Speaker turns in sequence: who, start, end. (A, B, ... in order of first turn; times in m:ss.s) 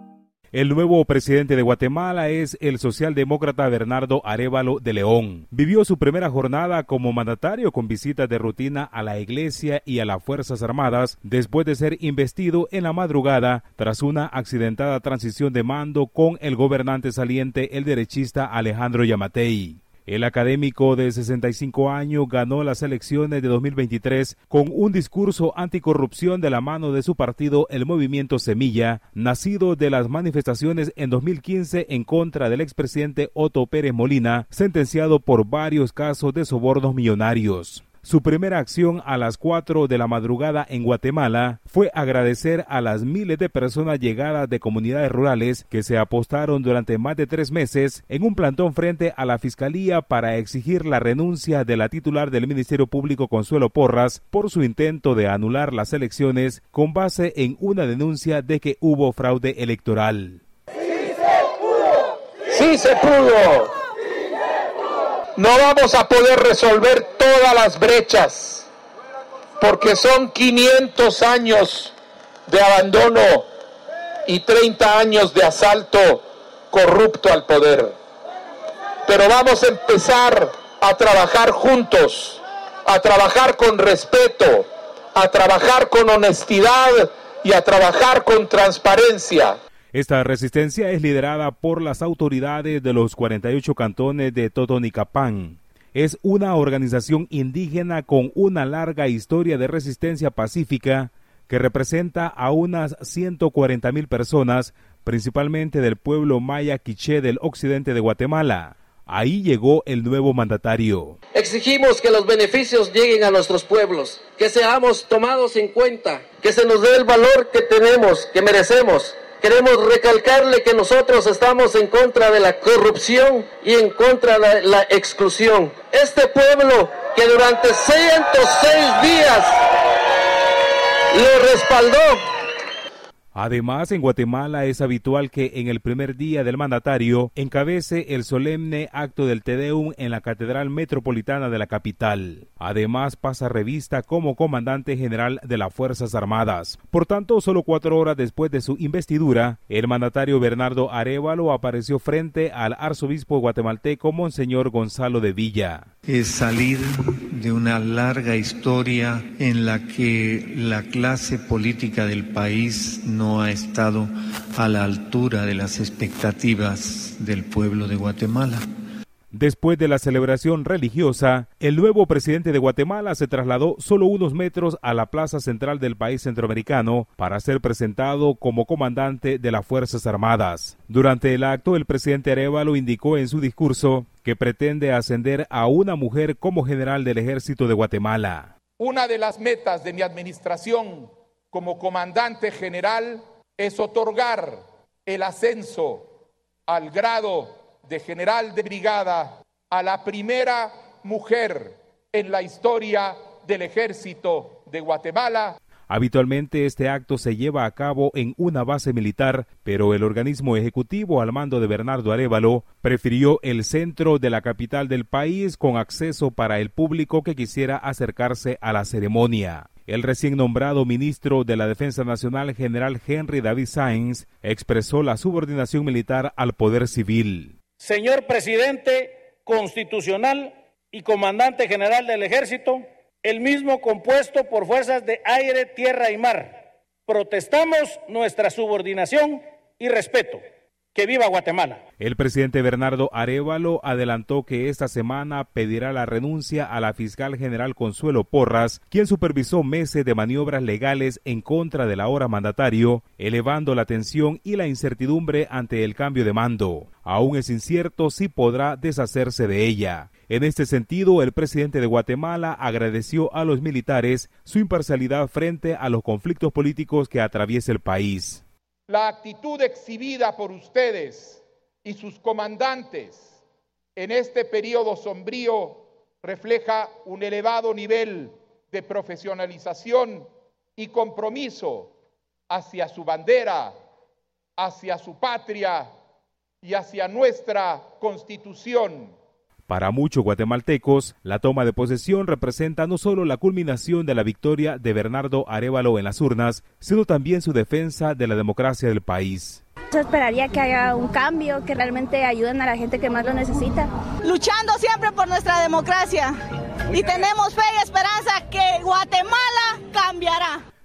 0:00.5-1:00.4 A
1:02.5-1:03.7 B
1:05.4-1:08.7 B
1:09.6-1:11.9 B
1:12.5-1:13.5 B
1:14.3-1:17.9 B
1:19.1-1:29.6 B
1:29.9-1:51.2 A
1:57.7-2:00.4 C
2:01.0-2:03.5 C
2:05.6-2:05.9 C
2:06.8-2:07.5 C
2:08.1-2:08.5 C
2:13.4-2:35.9 A
2:36.1-2:48.6 D
2:49.3-3:08.5 A
3:08.8-3:16.1 B
3:16.7-3:25.6 B
3:25.9-3:47.6 A
3:47.8-3:56.5 E
3:57.1-4:00.4 E
4:01.0-4:01.8 E
4:02.0-4:28.4 A
4:28.9-4:33.2 B
4:34.0-4:41.9 B
4:42.5-4:43.7 B
4:44.6-4:45.9 B
4:46.6-4:49.1 B
4:49.7-4:59.6 A
4:59.9-5:03.9 F
5:04.3-5:06.3 G
5:06.9-5:10.5 G